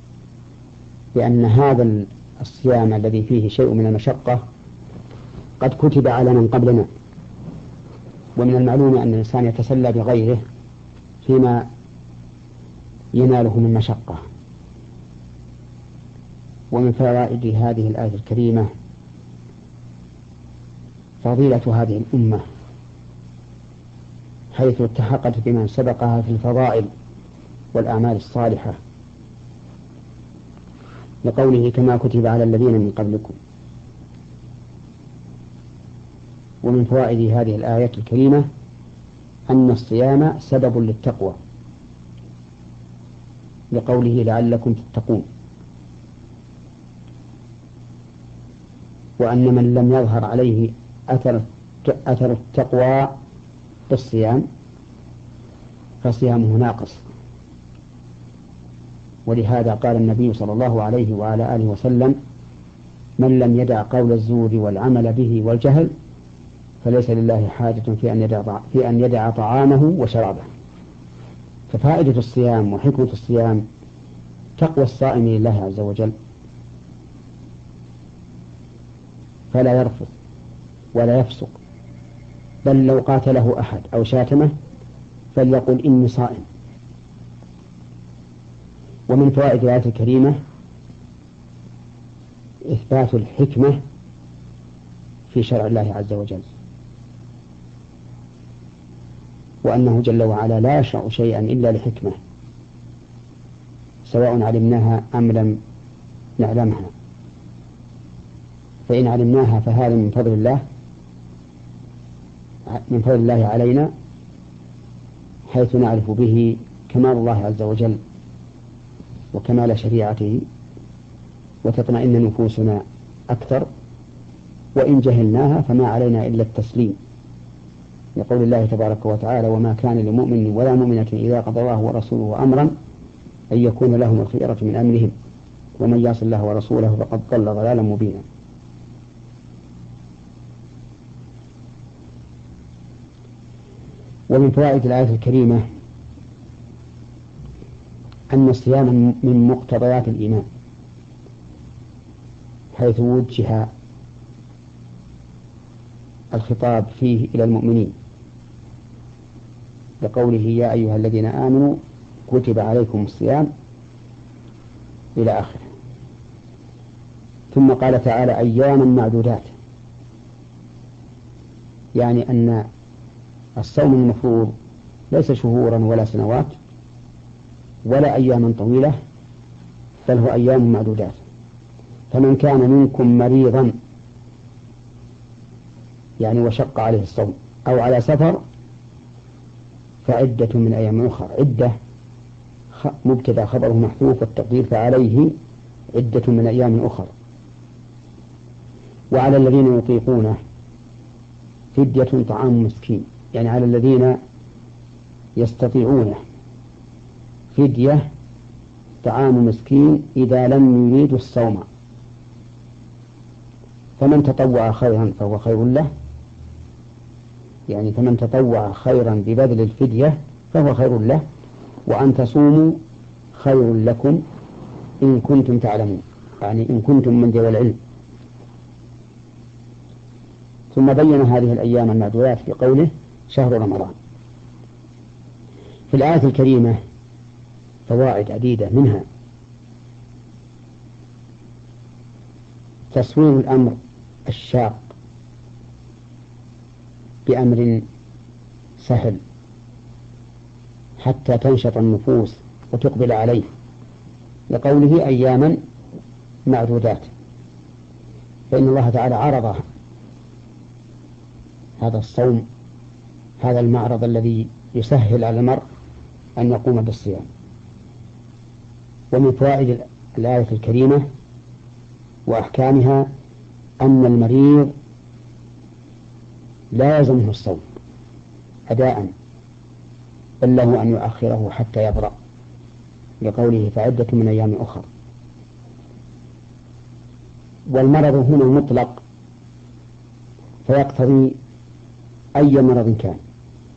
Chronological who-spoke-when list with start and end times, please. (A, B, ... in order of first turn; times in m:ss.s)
0:01.2-0:04.4 A
0:05.6-0:06.9 A
0:08.4-0:10.4 A
0:11.2-0:11.7 A
0:13.1-0:14.2 A
0:16.7-0:18.7 A
0:21.2-0:22.4 A
0:24.5-0:26.9 A
0:27.7-0:28.8 A
0:31.2-0:33.4 A
0:36.6-0:38.4 A
0:39.5-0:41.4 A
0:43.7-0:45.3 A
0:49.2-0:53.2 A
0:53.9-0:54.4 A
0:56.0-0:57.0 A
0:59.3-1:02.2 A
1:03.2-1:05.9 A
1:06.8-1:10.5 A
1:11.7-1:13.6 A
1:14.6-1:16.1 A
1:19.5-1:20.1 A
1:20.9-1:21.6 A
1:22.6-1:24.5 A
1:25.3-1:26.4 A
1:29.1-1:30.4 A
1:32.7-1:33.8 A
1:35.3-1:36.5 A
1:39.6-1:42.2 A
1:44.1-1:45.6 A
1:46.4-1:46.9 A
1:48.9-1:50.6 A
1:52.7-1:53.9 A
1:55.5-1:58.0 A
1:59.3-2:00.4 A
2:01.6-2:03.7 A
2:04.8-2:07.0 A
2:08.2-2:12.7 A
2:13.5-2:15.1 A
2:15.8-2:18.2 A
2:24.3-2:25.6 A
2:28.3-2:30.5 A
2:32.7-2:33.7 A
2:36.3-2:37.9 A
2:40.0-2:43.5 A
2:45.2-2:45.7 A
2:47.5-2:49.5 A
2:52.0-2:52.7 A
2:53.6-2:54.5 A
2:55.1-2:56.6 A
2:57.8-2:59.0 A
3:00.1-3:01.2 A
3:02.1-3:03.7 A
3:06.2-3:08.4 A
3:10.0-3:11.7 A
3:12.7-3:15.3 A
3:15.9-3:17.1 A
3:19.1-3:20.4 A
3:21.7-3:24.2 A
3:25.4-3:26.2 A
3:27.5-3:28.0 A
3:29.0-3:31.7 A
3:34.0-3:35.9 A
3:37.7-3:41.2 A
3:41.9-3:42.8 A
3:43.3-3:44.2 A
3:45.0-3:47.8 A
3:50.7-3:54.0 A
3:55.9-3:56.8 A
3:57.9-3:59.0 A
4:02.9-4:04.9 A
4:07.3-4:07.9 A
4:08.8-4:09.2 A
4:11.0-4:13.5 A
4:14.5-4:15.6 A
4:16.5-4:17.1 A
4:18.5-4:19.6 A
4:21.8-4:22.4 A
4:23.4-4:25.6 A
4:26.4-4:27.3 A
4:29.1-4:31.0 A
4:32.3-4:33.1 A
4:33.8-4:34.7 A
4:36.7-4:37.6 A
4:38.7-4:39.1 A
4:40.4-4:42.1 A
4:43.2-4:44.9 A
4:47.7-4:49.0 A
4:50.6-4:51.4 A
4:52.4-4:53.2 A